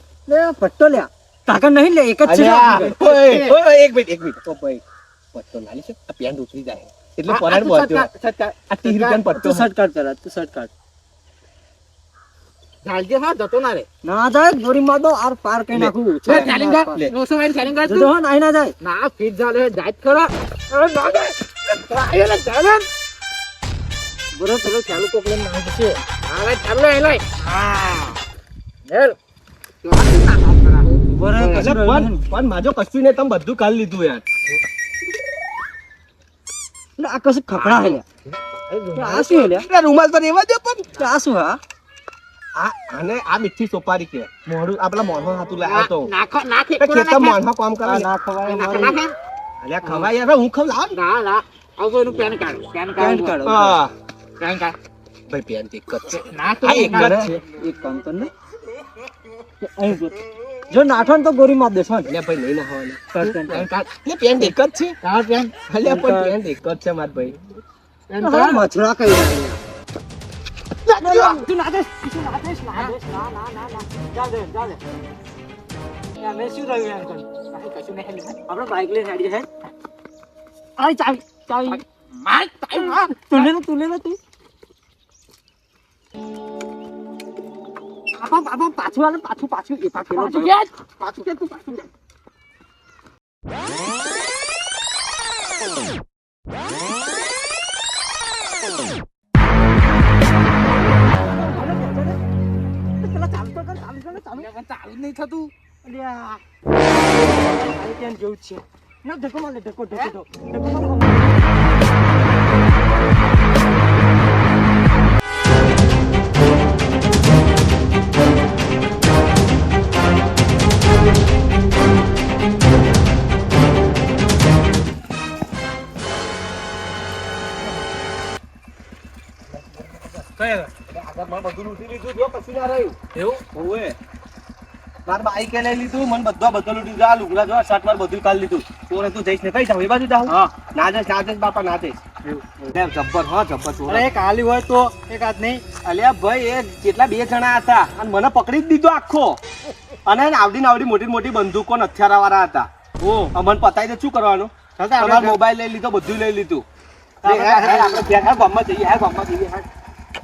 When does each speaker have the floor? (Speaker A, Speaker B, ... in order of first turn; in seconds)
Speaker A: 0.3-2.9, 9.3-10.7, 14.0-17.1, 17.8-18.7, 24.3-26.0, 31.0-32.2, 37.0-38.0, 38.9-39.7, 41.0-41.6, 47.8-49.0, 53.0-53.8, 56.7-58.3, 59.6-60.2, 60.7-62.1, 63.1-63.7, 65.8-66.4, 68.2-69.6, 70.9-74.8, 76.2-77.3, 78.5-79.5, 80.8-81.8, 82.7-84.2, 88.2-90.5, 101.2-102.2, 103.0-104.5, 105.8-106.4, 107.1-111.4, 142.3-142.6, 143.9-144.6, 157.7-158.0
Speaker B: 2.2-4.8, 5.3-8.1, 8.7-9.7, 15.7-17.1, 31.5-34.2, 39.2-40.9, 42.5-46.1, 46.8-48.1, 49.6-51.0, 53.4-53.9, 55.3-57.4, 62.1-65.0, 65.7-67.4, 130.6-133.9, 135.1-142.0, 142.7-144.1, 145.6-149.4, 150.1-156.6, 157.2-159.7
Speaker C: 2.7-3.5, 7.3-9.2, 12.8-13.8, 16.2-18.1, 18.8-22.9, 26.2-28.2, 28.9-29.2, 29.8-31.7, 37.5-39.4, 45.6-47.4, 48.4-49.1, 50.9-53.4, 54.4-54.7, 56.2-57.3, 63.5-63.8, 65.0-65.6, 68.1-68.7, 70.9-71.4, 77.5-78.4, 81.7-83.5, 90.1-91.9, 104.3-105.5, 144.1-145.6, 154.8-155.4, 157.2-157.8